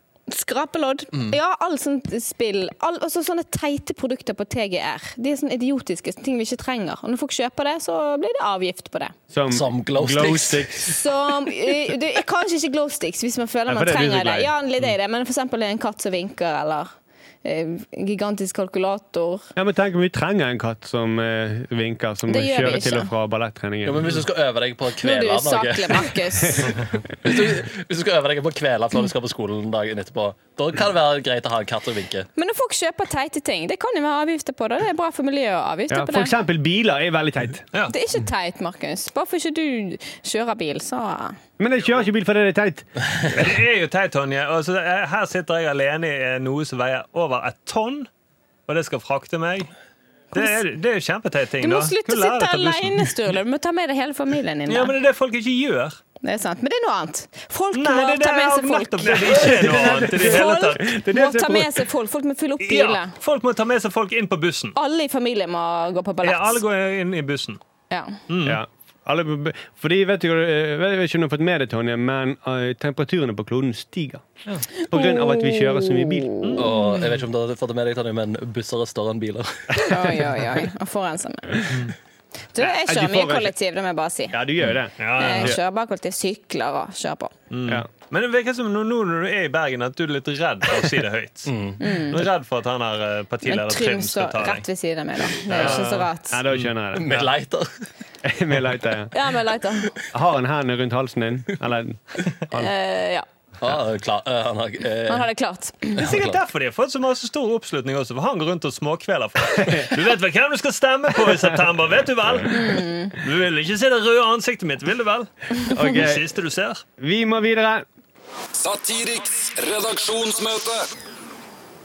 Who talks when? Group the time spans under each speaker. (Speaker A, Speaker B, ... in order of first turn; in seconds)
Speaker A: 0.3-9.1, 10.8-16.9, 17.4-19.5, 22.3-23.1, 25.0-26.8, 32.4-36.3, 37.9-41.4, 50.3-50.6, 51.6-54.9, 56.2-63.1, 64.8-66.6, 67.9-68.2, 74.8-76.7, 79.8-81.7, 82.5-84.4, 85.2-87.3, 91.8-92.2, 93.4-96.4, 99.1-99.9, 102.5-103.2, 105.1-106.1, 112.5-113.1
Speaker B: 9.3-11.0, 13.7-14.5, 19.6-24.1, 35.9-37.7, 41.6-43.5, 59.2-61.8, 68.4-76.4, 82.6-83.5, 84.3-85.6, 95.5-97.3, 98.2-99.1, 100.1-102.7, 109.6-109.9, 115.7-116.3, 117.0-117.8
Speaker C: 9.5-10.9, 23.8-32.3, 76.6-80.3, 91.5-91.8, 96.9-97.7, 103.6-105.2
Speaker D: 43.3-48.1, 48.7-49.7, 50.3-53.1, 54.7-56.0, 57.7-60.9, 62.6-64.8, 66.2-67.6, 68.3-68.6, 76.4-76.7, 85.0-85.5, 87.5-94.6, 95.4-96.7, 106.0-116.8
Speaker E: 118.5-120.9